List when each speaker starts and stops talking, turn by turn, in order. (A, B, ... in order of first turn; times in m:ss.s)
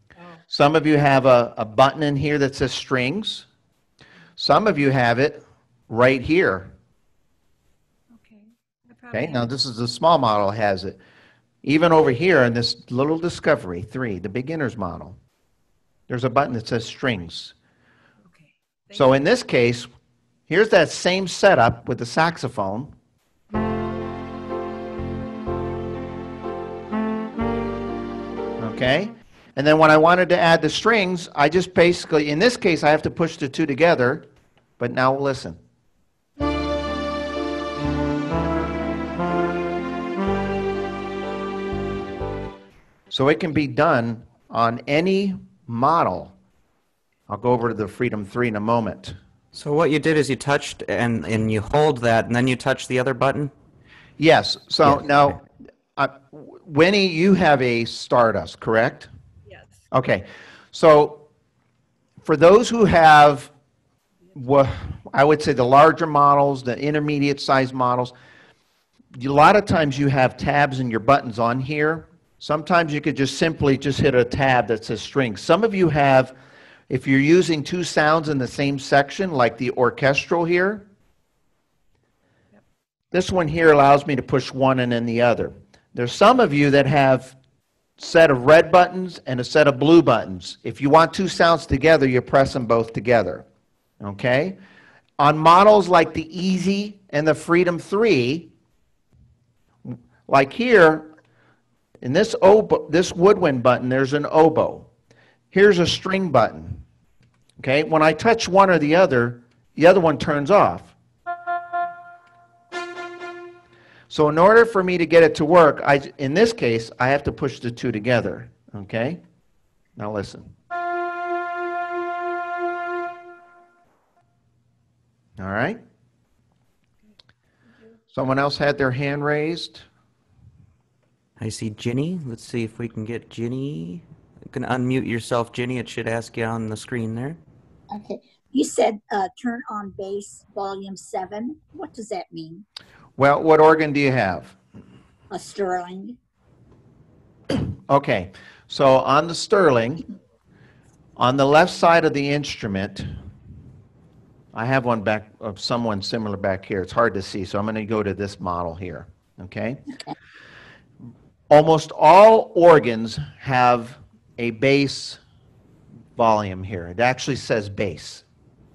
0:00.2-0:00.4 A
0:00.5-0:03.4 B
0:04.4-0:06.7 B
0:08.1-0:09.5 A
0:09.1-0:11.0 B
0:11.6-0:15.2 B
0:16.1-0:17.5 B
0:18.3-0:19.1 A
0:18.9-0:19.9 B
0:20.5-0:22.9 B
0:28.6-0:34.2 B
0:34.8-0:35.6 B
0:43.1-0:46.3 B
0:47.3-0:49.1 B
0:49.5-0:53.5 C
0:54.2-0:55.4 B
0:54.8-0:55.3 C
0:56.0-0:59.1 B
0:59.5-0:59.8 A
0:59.9-1:01.2 B
1:02.2-1:03.5 B
1:04.3-1:04.6 A
1:04.4-1:08.1 B
1:09.2-1:16.3 B
1:16.9-1:20.9 B
1:23.1-1:27.4 B
1:28.0-1:33.4 B
1:34.0-1:34.6 B
1:35.2-1:38.5 B
1:39.9-1:41.1 B
1:42.0-1:44.9 B
1:45.5-1:46.8 B
1:47.6-1:50.9 B
1:54.1-1:59.2 B
2:00.0-2:00.5 B
2:05.4-2:05.8 B
2:08.1-2:09.8 B
2:11.4-2:17.4 C
2:17.9-2:22.6 D
2:23.2-2:24.6 B
2:25.3-2:26.2 D
2:27.5-2:30.0 B
2:31.2-2:33.1 B
2:34.5-2:39.8 B
2:41.5-2:45.2 B
2:46.2-2:48.2 B